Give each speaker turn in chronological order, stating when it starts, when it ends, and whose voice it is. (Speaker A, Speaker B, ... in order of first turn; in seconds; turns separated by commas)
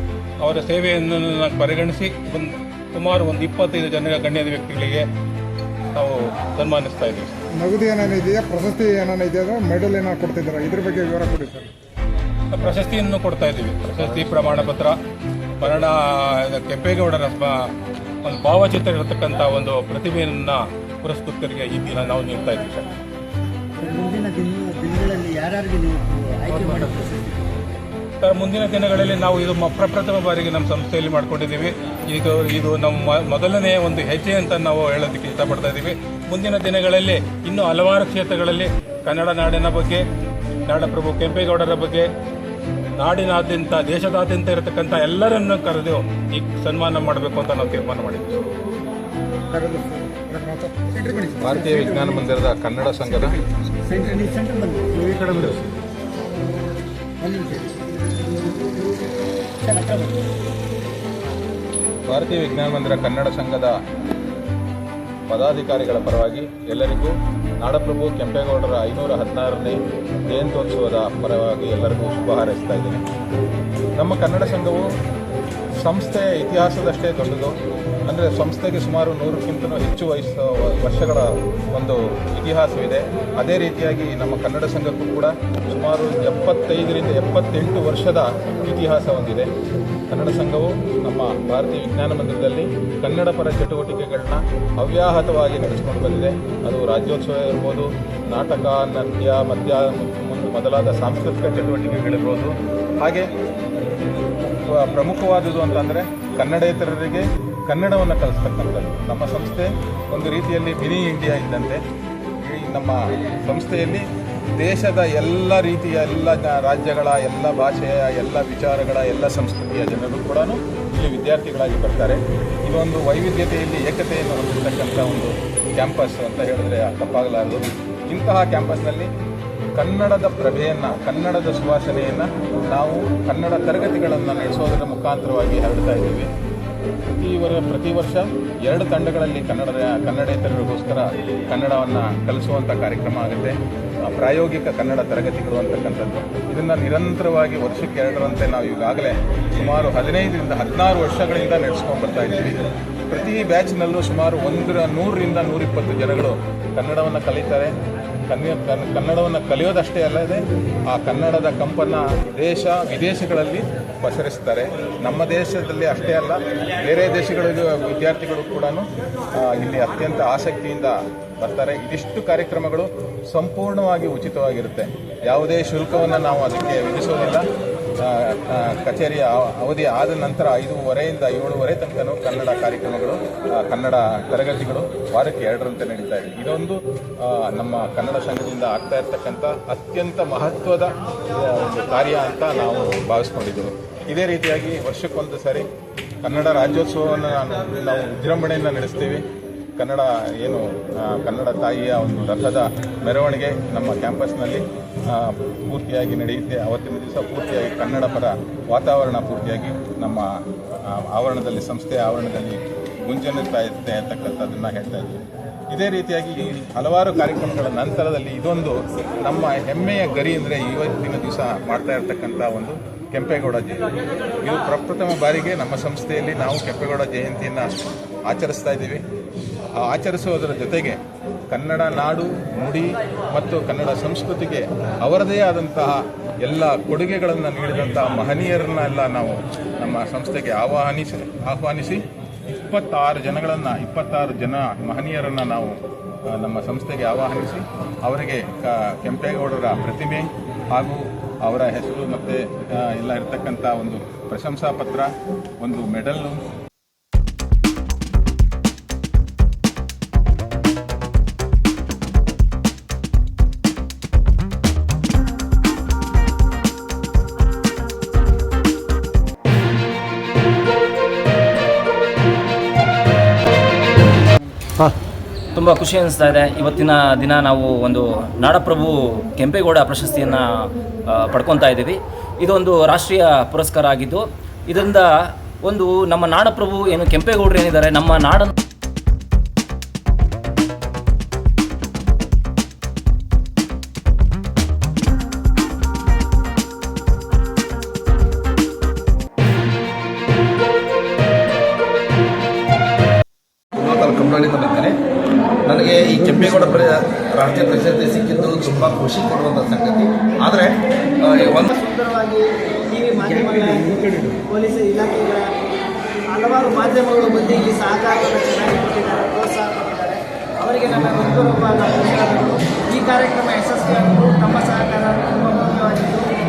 Speaker A: 0.4-5.1, Speaker A: 5.9-7.3, Speaker B: 7.5-11.7, Speaker A: 12.5-15.0, Speaker A: 15.6-17.7, Speaker A: 18.2-22.9, Speaker C: 23.8-27.6, Speaker A: 26.5-27.1, Speaker A: 28.2-40.0, Speaker A: 40.7-42.1, Speaker A: 43.0-48.4, Speaker B: 49.5-51.6, Speaker D: 51.4-53.4, Speaker C: 51.7-52.4, Speaker C: 53.9-55.5, Speaker D: 55.2-55.7, Speaker C: 57.2-57.9, Speaker C: 59.6-60.2, Speaker D: 62.1-63.8, Speaker D: 65.3-73.0, Speaker D: 74.0-74.9, Speaker D: 75.8-77.5, Speaker D: 78.1-89.5, Speaker D: 90.1-103.3, Speaker D: 104.7-111.8, Speaker D: 112.4-114.0, Speaker D: 114.6-129.1, Speaker D: 129.8-136.3, Speaker D: 137.1-157.7, Speaker D: 158.3-177.4, Speaker D: 178.0-195.7, Speaker D: 196.2-199.2, Speaker D: 199.8-210.3, Speaker D: 210.9-223.8, Speaker D: 224.4-227.7, Speaker D: 228.3-229.0, Speaker D: 229.8-231.0, Speaker D: 231.5-245.8, Speaker D: 246.3-256.4, Speaker E: 275.6-280.5, Speaker E: 281.1-285.1, Speaker E: 285.6-288.5, Speaker F: 303.8-305.0, Speaker F: 305.6-311.7, Speaker G: 311.6-315.4, Speaker G: 316.3-326.3